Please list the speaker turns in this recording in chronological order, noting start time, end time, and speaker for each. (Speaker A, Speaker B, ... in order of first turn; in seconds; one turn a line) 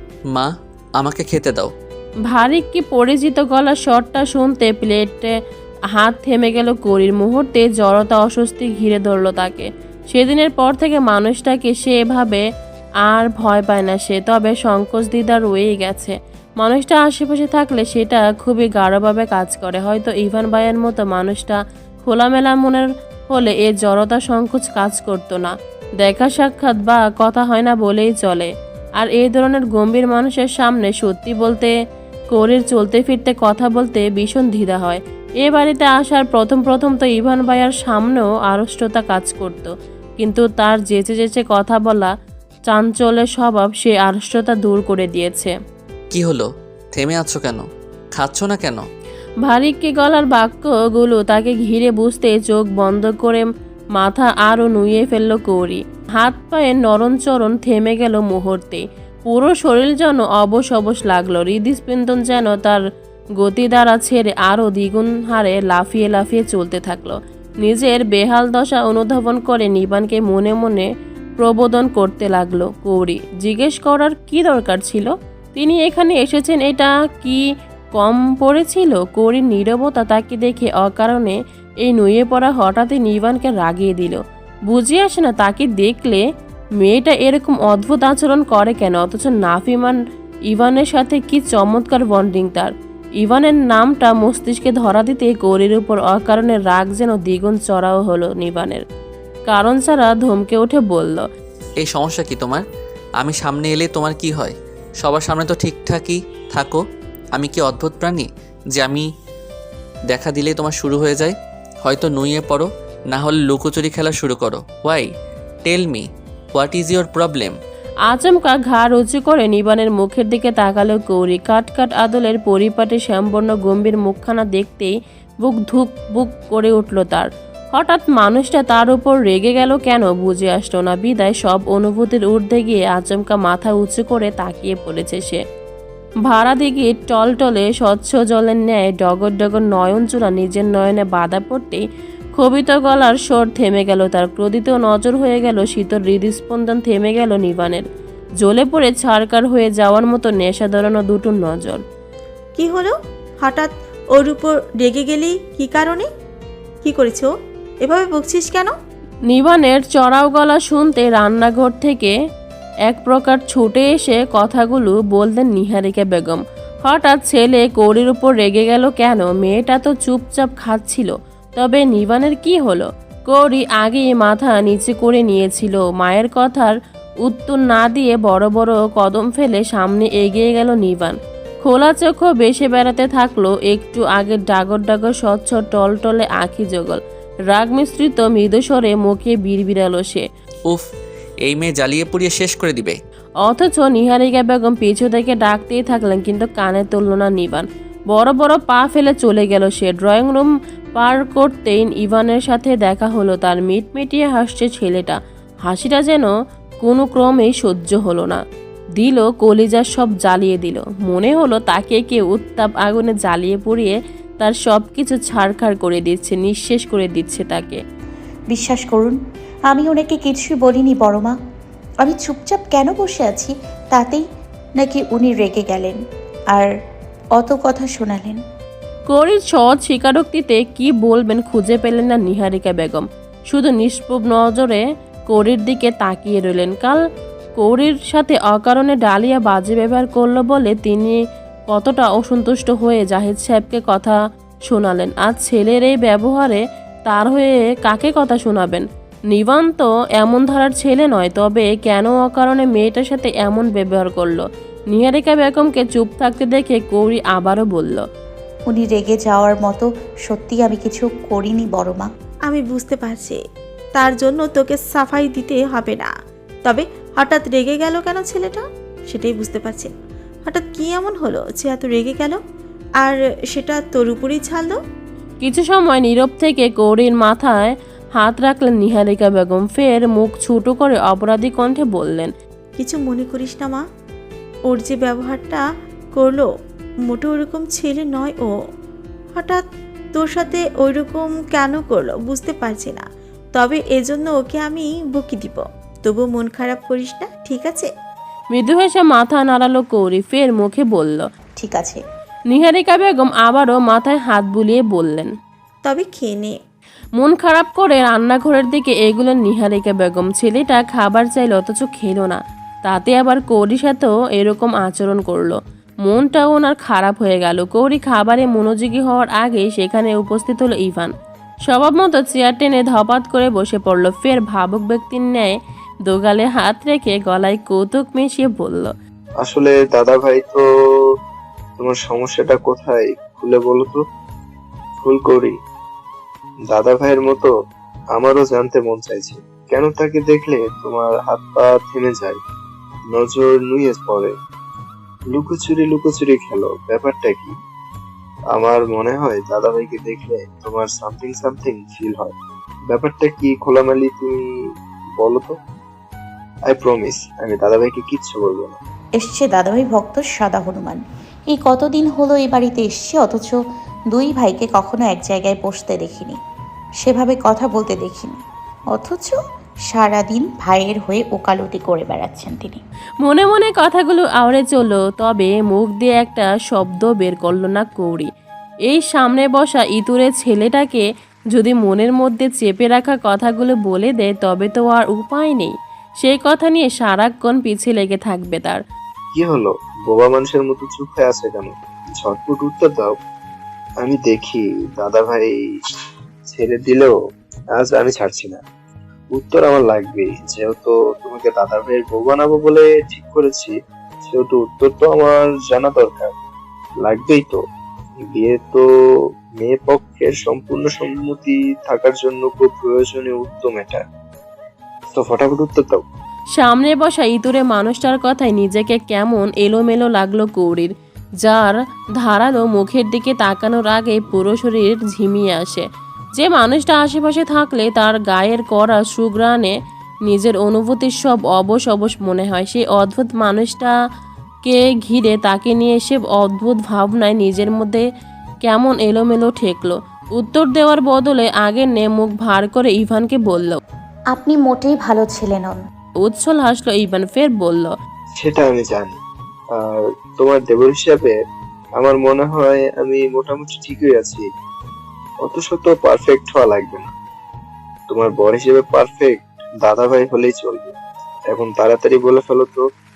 Speaker A: 0.3-1.7
Speaker B: 2.3-5.3
Speaker B: 5.9-12.4
Speaker B: 13.1-31.7
Speaker B: 32.3-42.1
Speaker B: 42.7-45.5
Speaker A: 46.1-47.6
Speaker A: 48.1-48.8
Speaker B: 49.5-62.8
Speaker B: 63.4-70.9
Speaker B: 71.4-77.4
Speaker B: 77.9-86.2
Speaker B: 86.8-90.0
Speaker B: 90.5-98.8
Speaker B: 99.5-101.2
Speaker A: 101.8-102.6
Speaker A: 103.2-106.8
Speaker A: 107.3-109.1
Speaker A: 110.1-115.1
Speaker A: 115.6-117.5
Speaker B: 118.1-124.9
Speaker B: 125.4-135.4
Speaker B: 136.3-141.8
Speaker B: 142.4-147.8
Speaker B: 148.4-151.8
Speaker C: 152.6-156.1
Speaker C: 156.8-157.3
Speaker C: 157.8-158.7
Speaker B: 159.3-162.1
Speaker B: 162.9-190.2
Speaker A: 191.4-193.0
Speaker B: 193.4-206.3
Speaker B: 206.8-208.4
Speaker B: 209.0-217.8
Speaker D: 218.5-219.2
Speaker D: 219.7-221.3
Speaker D: 222.0-224.2
Speaker D: 224.8-226.0
Speaker D: 227.4-228.4
Speaker B: 229.1-237.0
Speaker B: 237.6-241.2
Speaker B: 241.7-258.0
Speaker D: 258.7-262.1
Speaker C: 262.5-263.4
Speaker C: 263.9-266.1
Speaker C: 266.6-269.9
Speaker C: 270.4-272.4
Speaker C: 273.0-274.8
Speaker B: 275.4-282.3
Speaker C: 282.8-283.8
Speaker C: 284.7-285.6
Speaker C: 286.2-286.5
Speaker C: 287.1-288.5
Speaker C: 289.4-289.6
Speaker C: 290.1-293.0
Speaker C: 293.5-297.9
Speaker B: 298.5-301.2
Speaker D: 301.6-302.0
Speaker B: 302.5-305.3
Speaker C: 305.9-306.5
Speaker B: 307.2-321.1
Speaker B: 321.7-328.9
Speaker E: 329.4-330.6
Speaker E: 331.8-334.0
Speaker E: 335.0-335.6
Speaker E: 336.7-337.5
Speaker E: 338.1-342.4
Speaker E: 343.1-344.3
Speaker E: 345.3-347.5
Speaker E: 348.5-352.3
Speaker E: 352.9-354.4
Speaker E: 355.2-355.5
Speaker E: 356.7-358.8
Speaker D: 359.2-363.6
Speaker D: 364.1-366.4
Speaker D: 367.0-368.4
Speaker D: 368.9-369.4
Speaker D: 369.9-372.8
Speaker B: 373.2-378.3
Speaker B: 378.9-388.8
Speaker E: 389.4-393.1
Speaker E: 394.0-395.5
Speaker E: 396.5-397.1
Speaker E: 397.7-398.6
Speaker E: 399.3-403.7
Speaker E: 404.2-406.3
Speaker E: 407.0-407.6
Speaker E: 408.3-408.8
Speaker E: 409.6-414.0
Speaker E: 415.1-416.0
Speaker B: 416.6-429.7
Speaker B: 430.2-433.9
Speaker B: 434.6-438.0
Speaker B: 438.6-443.8
Speaker D: 444.3-445.8
Speaker B: 446.2-447.9
Speaker E: 448.3-449.2
Speaker E: 449.8-451.3
Speaker E: 452.0-454.4
Speaker E: 455.4-457.1
Speaker E: 458.1-460.9
Speaker E: 461.5-462.8